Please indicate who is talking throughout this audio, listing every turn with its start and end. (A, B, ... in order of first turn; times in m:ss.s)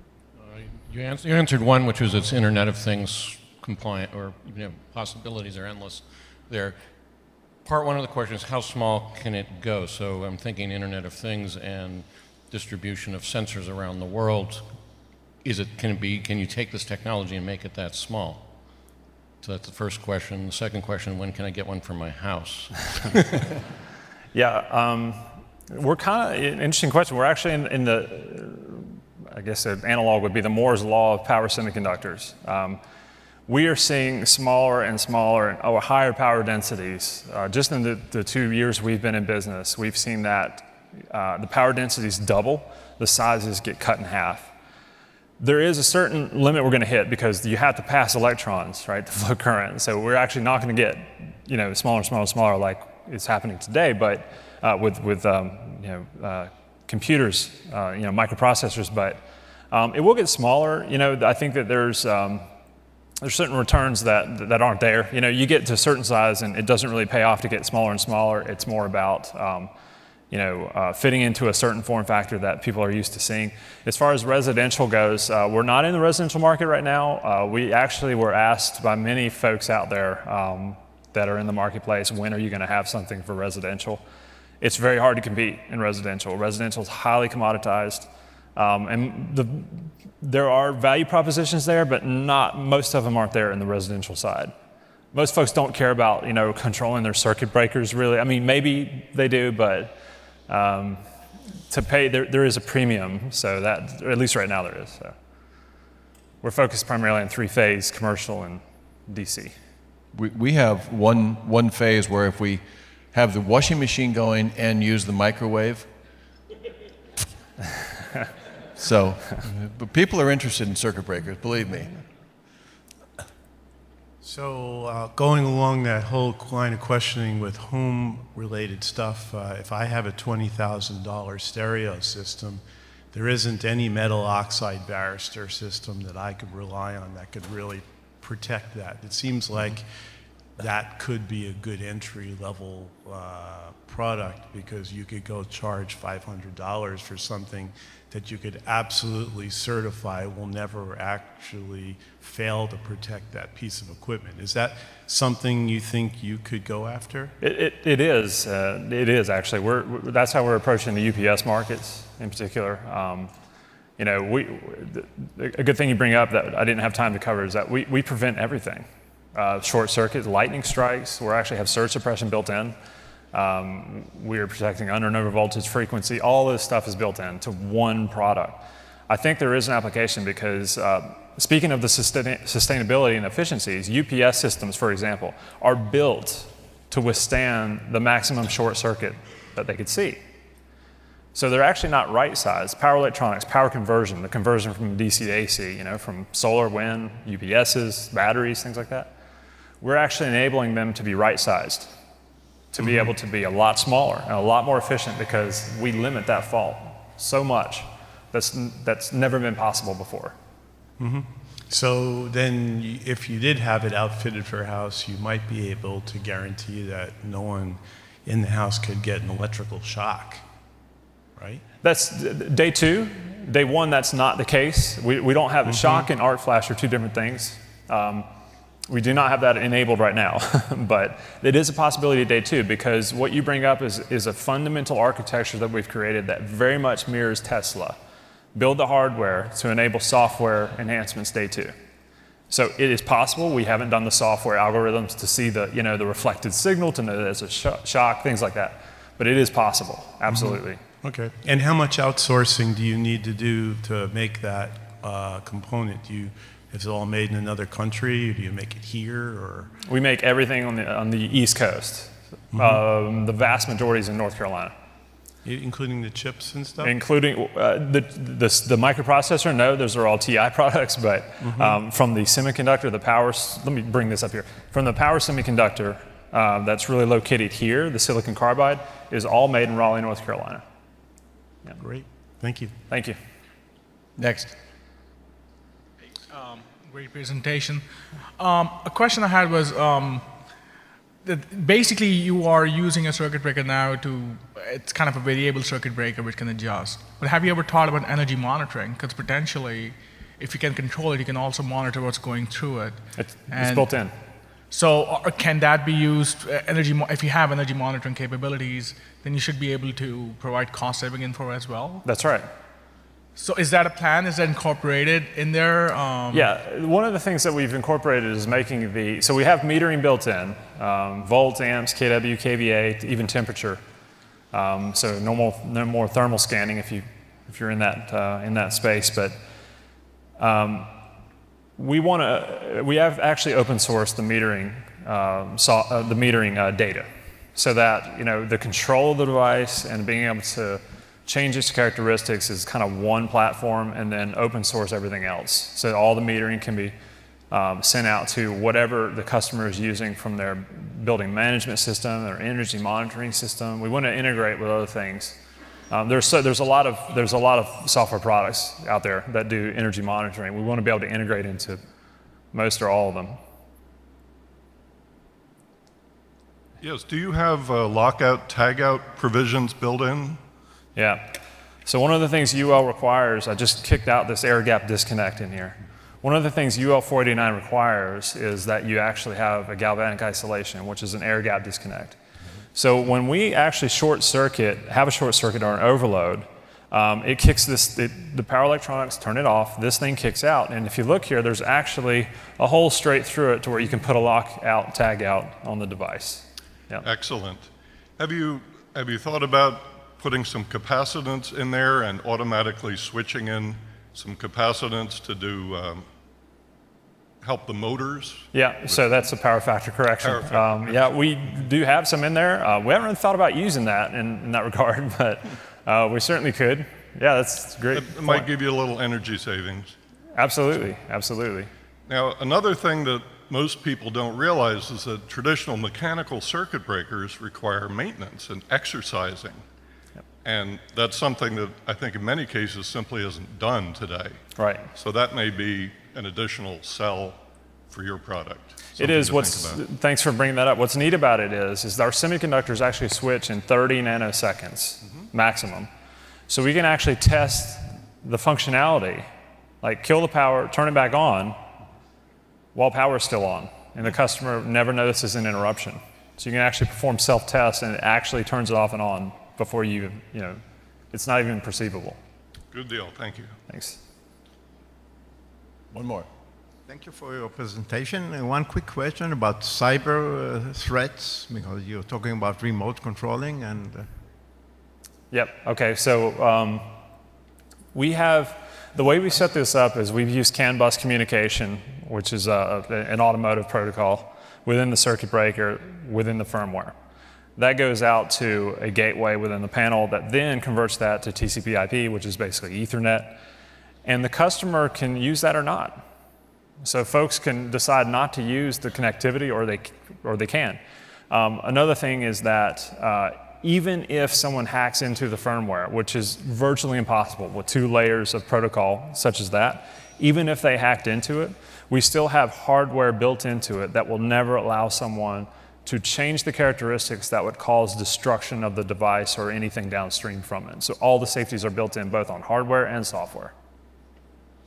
0:00.4-0:06.8 A
0:07.6-0:14.7 A
0:15.4-0:18.5 A
0:19.4-0:23.6 A
0:24.3-0:32.8 B
0:33.5-0:44.5 B
0:45.4-1:02.5 B
1:03.2-1:09.7 B
1:10.3-1:24.0 B
1:24.6-1:34.5 B
1:35.1-1:41.0 B
1:41.7-1:45.1 B
1:46.4-1:49.5 B
1:50.1-1:55.9 C
1:58.8-2:02.0 C
2:04.2-2:19.9 D
2:20.6-2:37.3 D
2:37.4-2:43.3 B
2:44.0-2:52.8 B
2:53.3-3:10.2 B
3:11.3-3:19.1 B
3:19.8-3:21.9 B
3:22.7-3:30.3 B
3:22.8-3:23.1 D
3:31.0-3:40.4 D
3:41.4-3:41.6 D
3:41.8-3:48.3 B
3:45.7-3:46.0 D
3:48.9-3:58.0 B
3:58.5-4:01.7 B
4:02.5-4:10.8 B
4:10.3-4:19.7 D
4:19.8-4:24.7 B
4:22.5-4:22.8 D
4:25.4-4:26.9 D
4:26.8-4:40.6 B
4:31.4-4:31.8 D
4:41.8-4:42.7 D
4:42.9-4:43.2 B
4:44.2-4:44.5 C
4:46.3-4:50.3 E
4:51.2-5:04.0 E
5:03.2-5:04.1 B
5:04.7-5:12.0 E
5:12.0-5:12.5 B
5:13.3-5:16.5 E
5:16.3-5:23.8 B
5:24.5-5:29.4 B
5:30.4-5:30.9 B
5:31.8-5:46.9 B
5:47.5-5:55.4 B
5:55.9-6:01.8 B
6:02.5-6:03.4 B
6:06.8-6:10.4 F
6:11.0-6:22.2 B
6:22.7-6:37.0 B
6:37.0-6:46.0 F
6:47.4-6:49.0 F
6:48.5-6:58.5 B
6:50.2-6:51.1 F
6:57.9-6:59.9 F
7:00.3-7:01.7 B
7:02.1-7:09.6 F
7:10.4-7:14.4 F
7:14.6-7:14.9 B
7:14.9-7:19.8 F
7:19.0-7:25.9 B
7:26.5-7:29.3 B
7:29.8-7:31.6 B
7:32.7-7:40.6 B
7:41.1-7:42.2 B
7:42.7-7:43.6 F
7:43.7-7:44.0 B
7:45.9-7:46.3 C
7:46.9-7:54.1 G
7:55.3-7:56.9 B
7:57.9-8:06.9 B
8:07.6-8:13.4 B
8:14.0-8:16.0 B
8:16.8-8:20.8 B
8:21.3-8:43.5 B